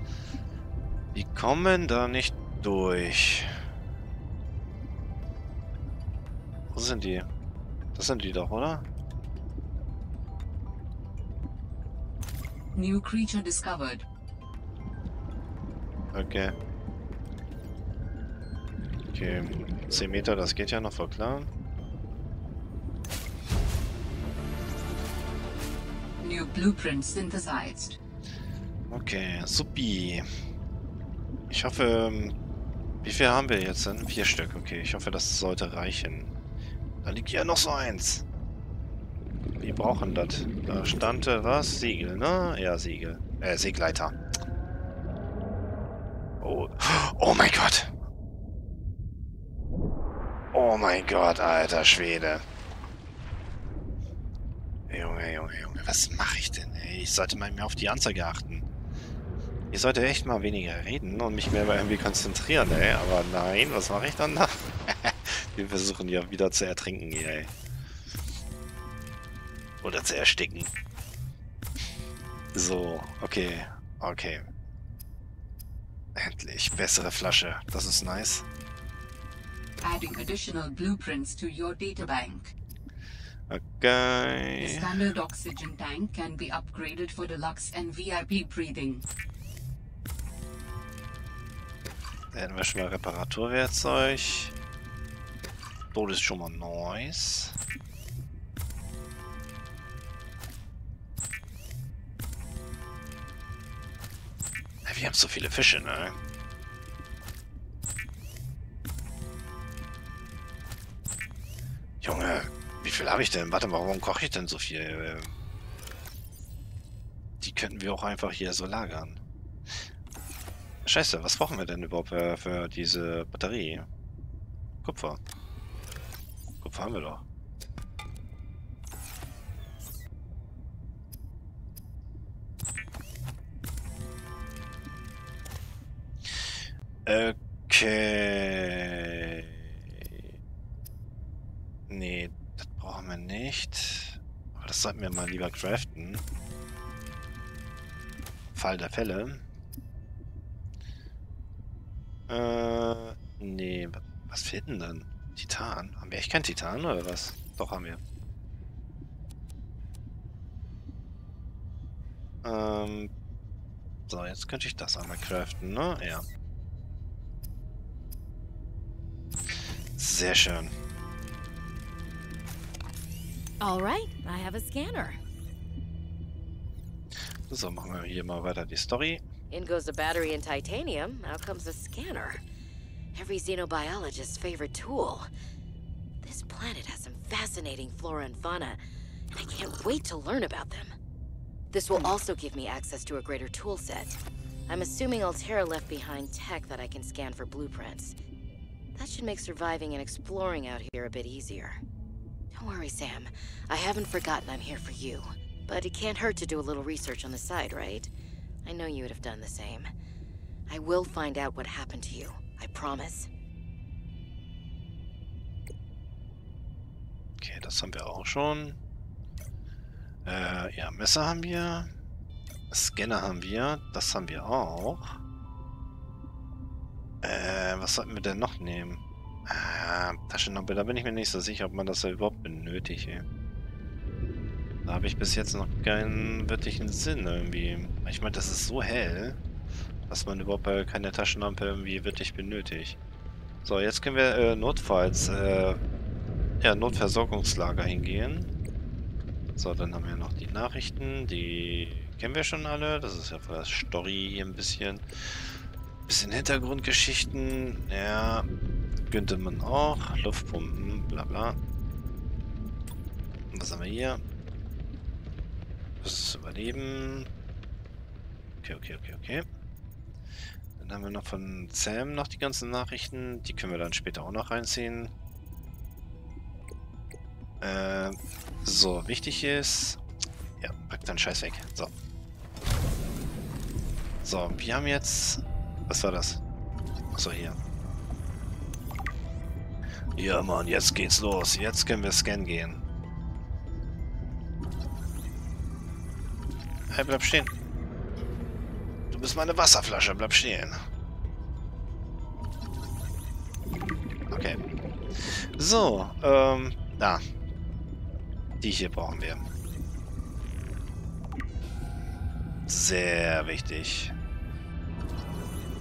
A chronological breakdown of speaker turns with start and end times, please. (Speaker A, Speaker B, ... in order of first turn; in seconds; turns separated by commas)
Speaker A: 1.1-3.5, Speaker A: 6.7-7.3, Speaker A: 8.0-8.9, Speaker B: 12.8-14.0, Speaker A: 16.1-16.5, Speaker A: 19.1-21.5, Speaker B: 26.2-28.0, Speaker A: 28.9-30.3, Speaker A: 31.5-32.4, Speaker A: 33.0-36.3, Speaker A: 37.0-38.2, Speaker A: 39.6-44.1, Speaker A: 46.4-47.9, Speaker A: 50.5-52.4, Speaker A: 54.9-58.6, Speaker A: 59.7-67.5, Speaker A: 69.8-70.7, Speaker A: 72.5-74.5, Speaker A: 76.1-78.5, Speaker B: 79.8-82.5, Speaker A: 83.5-85.0, Speaker B: 84.6-89.0, Speaker A: 92.3-94.5, Speaker A: 95.9-97.5, Speaker A: 104.8-106.2, Speaker A: 112.0-115.3, Speaker A: 117.4-119.2, Speaker A: 120.8-123.9, Speaker A: 124.8-125.2, Speaker A: 126.6-127.2, Speaker A: 137.1-140.2, Speaker A: 141.9-146.2, Speaker A: 148.5-149.4, Speaker A: 152.3-158.0, Speaker A: 162.4-163.1, Speaker A: 164.1-166.2, Speaker A: 170.0-170.7, Speaker C: 173.6-175.2, Speaker A: 177.5-179.2, Speaker C: 179.5-182.4, Speaker C: 183.1-185.3, Speaker C: 186.2-191.0, Speaker C: 191.7-198.2, Speaker C: 198.9-201.8, Speaker C: 202.5-208.1, Speaker C: 208.6-209.9, Speaker C: 210.7-213.3, Speaker A: 217.4-218.8, Speaker A: 220.2-221.9, Speaker A: 222.7-225.2, Speaker A: 227.2-233.2, Speaker A: 234.8-239.4, Speaker A: 240.1-243.0, Speaker A: 243.6-245.8, Speaker A: 246.6-248.5, Speaker A: 249.6-255.0, Speaker A: 256.1-258.5, Speaker A: 259.1-261.6, Speaker A: 263.5-264.2, Speaker A: 266.0-267.3, Speaker A: 268.6-269.4, Speaker A: 270.8-275.1, Speaker A: 277.6-280.0, Speaker A: 280.6-281.9, Speaker A: 284.2-286.4, Speaker A: 287.1-287.6, Speaker A: 290.2-292.8, Speaker A: 296.9-297.5, Speaker A: 299.1-300.8, Speaker A: 304.3-304.6, Speaker A: 305.2-307.2, Speaker A: 308.6-309.4, Speaker A: 312.7-314.1